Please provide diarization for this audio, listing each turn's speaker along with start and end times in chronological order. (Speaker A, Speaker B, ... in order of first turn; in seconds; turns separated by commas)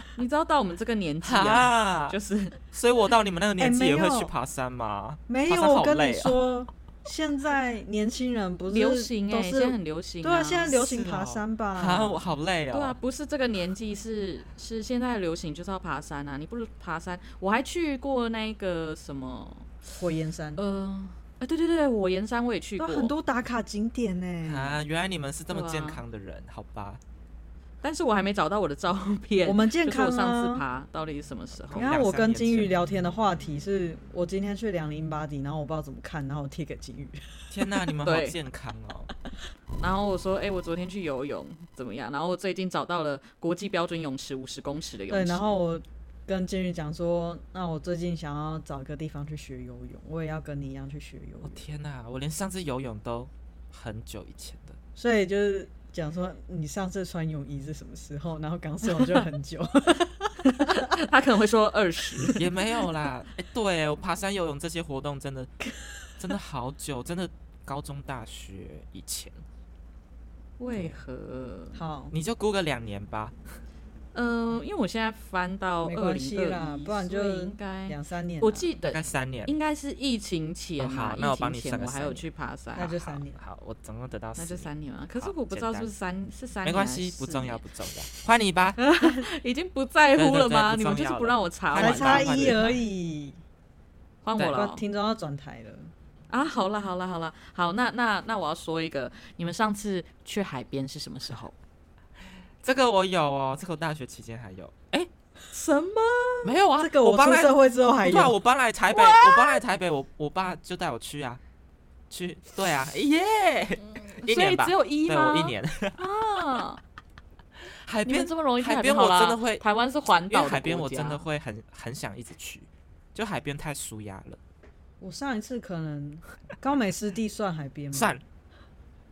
Speaker A: 0.2-2.6, Speaker B: 1.2-2.2, Speaker B: 2.7-6.4, Speaker C: 3.6-4.3, Speaker C: 5.3-12.2, Speaker A: 8.7-10.7, Speaker B: 10.7-13.0, Speaker A: 12.7-19.8, Speaker C: 19.9-20.6, Speaker A: 20.6-23.1, Speaker C: 22.8-24.8, Speaker B: 24.4-27.0, Speaker A: 25.5-26.0, Speaker A: 27.8-31.9, Speaker C: 29.4-30.6, Speaker B: 31.7-32.7, Speaker C: 31.8-37.5, Speaker B: 37.5-39.1, Speaker A: 38.0-38.4, Speaker A: 39.8-45.4, Speaker C: 45.1-51.6, Speaker B: 51.4-54.8, Speaker C: 55.0-61.0, Speaker A: 60.4-62.5, Speaker B: 62.3-65.5, Speaker B: 66.2-69.4, Speaker A: 70.6-71.8, Speaker C: 71.8-72.1, Speaker B: 72.1-73.6, Speaker A: 74.1-83.2, Speaker C: 75.8-78.7, Speaker B: 78.9-79.5, Speaker B: 80.8-82.2, Speaker C: 82.8-83.4, Speaker B: 83.4-85.9, Speaker A: 84.4-87.6, Speaker B: 86.6-88.8, Speaker A: 88.8-92.7, Speaker C: 89.0-89.3, Speaker B: 90.2-92.8, Speaker C: 91.8-93.4, Speaker A: 94.2-94.8, Speaker C: 94.4-95.9, Speaker A: 96.3-101.5, Speaker B: 102.6-105.1, Speaker A: 105.5-106.5, Speaker B: 106.4-111.4, Speaker C: 106.8-108.4, Speaker A: 108.9-109.6, Speaker B: 112.1-116.0, Speaker A: 113.8-116.8, Speaker B: 117.8-119.6, Speaker A: 118.0-121.2, Speaker B: 120.3-124.4, Speaker C: 125.0-128.2, Speaker B: 127.9-128.2